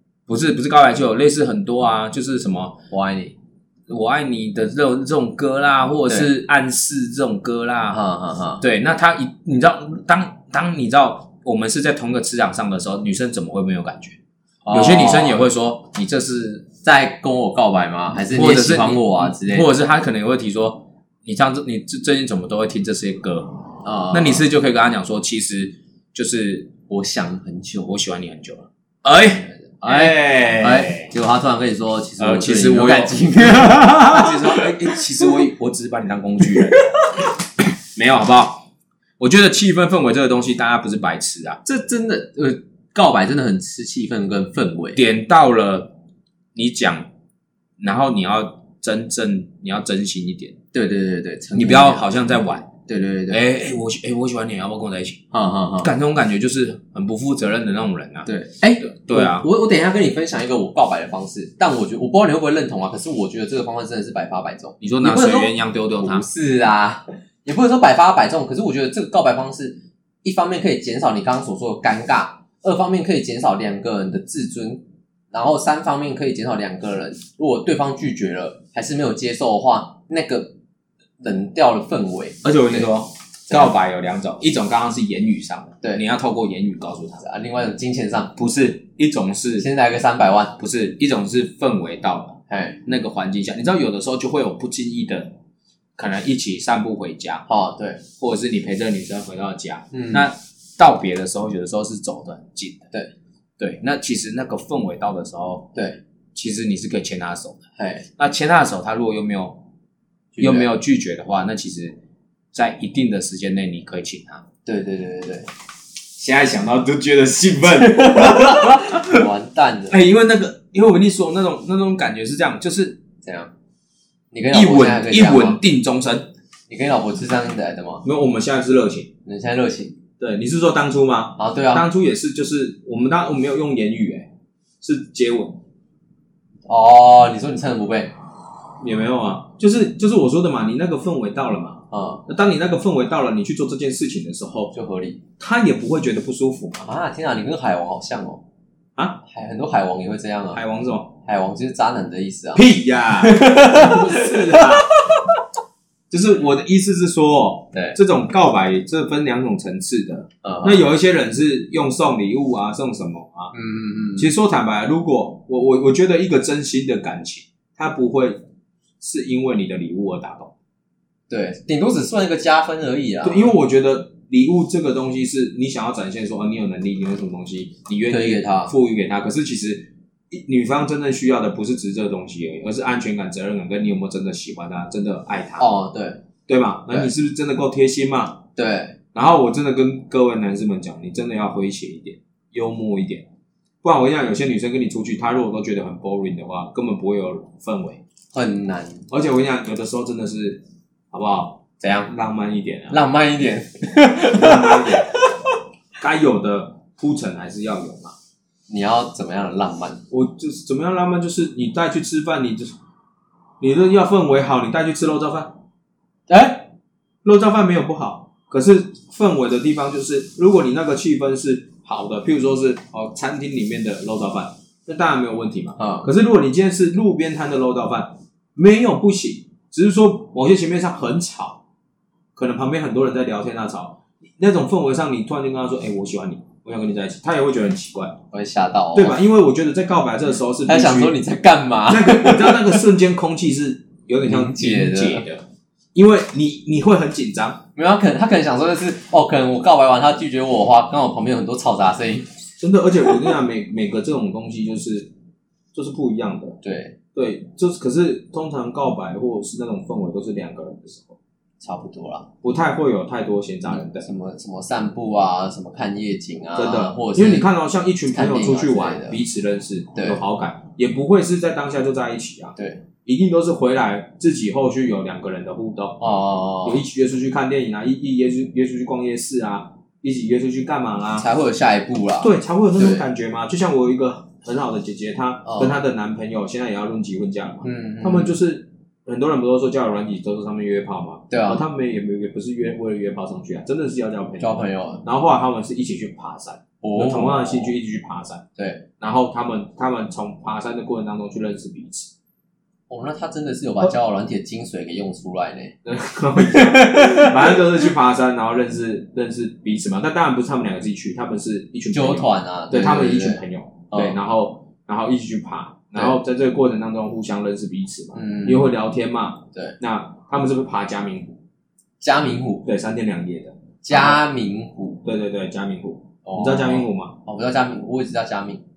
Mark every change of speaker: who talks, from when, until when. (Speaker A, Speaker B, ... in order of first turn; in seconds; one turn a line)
Speaker A: 0.3-2.8
Speaker B: 2.9-3.3
Speaker A: 3.9-8.0
Speaker B: 7.9-8.6
Speaker A: 8.6-14.2
Speaker B: 14.6-15.4
Speaker A: 14.7-16.7
Speaker B: 16.8-19.7
Speaker A: 18.1-23.6
Speaker B: 23.8-24.4
Speaker A: 24.1-26.7
Speaker B: 26.9-27.9
Speaker A: 27.8-31.1
Speaker B: 29.2-35.0
Speaker A: 32.2-36.8
Speaker B: 36.6-37.0
Speaker A: 37.9-38.6
Speaker A: 39.2-41.6
Speaker B: 41.6-45.0
Speaker A: 44.9-45.9
Speaker A: 46.5-47.1
Speaker A: 47.8-50.6
Speaker B: 50.7-52.3
Speaker A: 51.5-52.7
Speaker B: 52.9-53.4
Speaker A: 53.3-55.2
Speaker B: 55.3-55.9
Speaker A: 55.8-58.3
Speaker B: 58.2-80.5
Speaker A: 58.8-59.5
Speaker A: 64.8-66.2
Speaker B: 81.2-82.9
Speaker A: 82.4-87.2
Speaker B: 87.2-88.3
Speaker A: 88.3-89.7
Speaker B: 89.6-90.6
Speaker A: 90.6-95.3
Speaker B: 92.5-92.8
Speaker A: 96.0-97.5
Speaker B: 97.5-98.0
Speaker A: 98.2-102.9
Speaker B: 99.9-100.3
Speaker A: 103.6-105.7
Speaker A: 106.3-107.6
Speaker B: 107.8-108.0
Speaker A: 108.2-109.6
Speaker B: 110.3-110.7
Speaker A: 110.4-112.0
Speaker A: 112.5-114.4
Speaker B: 114.6-115.5
Speaker A: 116.2-119.2
Speaker B: 117.8-120.0
Speaker A: 119.9-123.0
Speaker B: 123.2-123.5
Speaker B: 124.3-125.6
Speaker A: 124.5-126.3
Speaker B: 126.7-128.0
Speaker A: 128.0-129.1
Speaker B: 129.2-130.0
Speaker A: 130.2-134.3
Speaker B: 131.4-131.9
Speaker A: 134.8-135.6
Speaker B: 136.7-138.1
Speaker A: 138.8-144.7
Speaker B: 141.9-142.2
Speaker B: 144.7-145.2
Speaker A: 145.4-146.8
Speaker B: 146.8-148.4
Speaker B: 149.2-150.6
Speaker A: 150.5-151.1
Speaker B: 151.2-152.7
Speaker A: 152.5-154.9
Speaker B: 153.2-155.2
Speaker A: 156.1-163.5
Speaker B: 160.4-160.8
Speaker B: 163.5-164.3
Speaker A: 164.2-168.4
Speaker A: 169.0-170.5
Speaker B: 171.3-173.5
Speaker A: 173.2-185.7
Speaker B: 178.1-178.7
Speaker B: 185.6-186.2
Speaker A: 186.5-188.4
Speaker B: 188.6-188.9
Speaker A: 189.1-193.2
Speaker A: 193.8-198.0
Speaker B: 198.3-199.1
Speaker A: 199.1-203.0
Speaker B: 201.8-202.1
Speaker B: 202.9-205.4
Speaker A: 204.2-205.0
Speaker A: 206.0-208.1
Speaker B: 208.7-210.0
Speaker A: 210.1-212.7
Speaker A: 213.6-215.6
Speaker B: 216.3-216.7
Speaker A: 217.2-231.6
Speaker B: 225.8-226.1
Speaker A: 232.3-238.2
Speaker B: 238.3-239.2
Speaker A: 238.9-241.2
Speaker B: 240.7-242.8
Speaker A: 241.9-247.6
Speaker B: 244.2-245.3
Speaker B: 247.8-252.3
Speaker A: 252.6-255.1
Speaker A: 255.7-256.6
Speaker B: 256.6-256.9
Speaker A: 257.1-261.2
Speaker B: 261.6-262.3
Speaker A: 262.4-264.1
Speaker B: 263.7-267.5
Speaker A: 266.6-276.0
Speaker B: 268.1-269.2
Speaker B: 269.9-270.2
Speaker B: 272.6-272.8
Speaker B: 276.0-276.8
Speaker A: 276.6-281.2
Speaker B: 281.2-283.1
Speaker A: 282.2-298.4
Speaker B: 285.4-285.8
Speaker B: 287.6-288.4
Speaker B: 291.3-291.6
Speaker B: 294.4-295.0
Speaker B: 296.8-297.7
Speaker B: 298.6-298.8
Speaker A: 299.0-302.1
Speaker B: 302.9-305.8
Speaker A: 305.8-321.4
Speaker B: 306.4-307.6
Speaker B: 311.9-314.2
Speaker B: 318.1-318.7
Speaker B: 322.0-322.6
Speaker A: 322.6-324.2
Speaker B: 323.8-325.0
Speaker A: 325.0-327.1
Speaker B: 326.2-328.6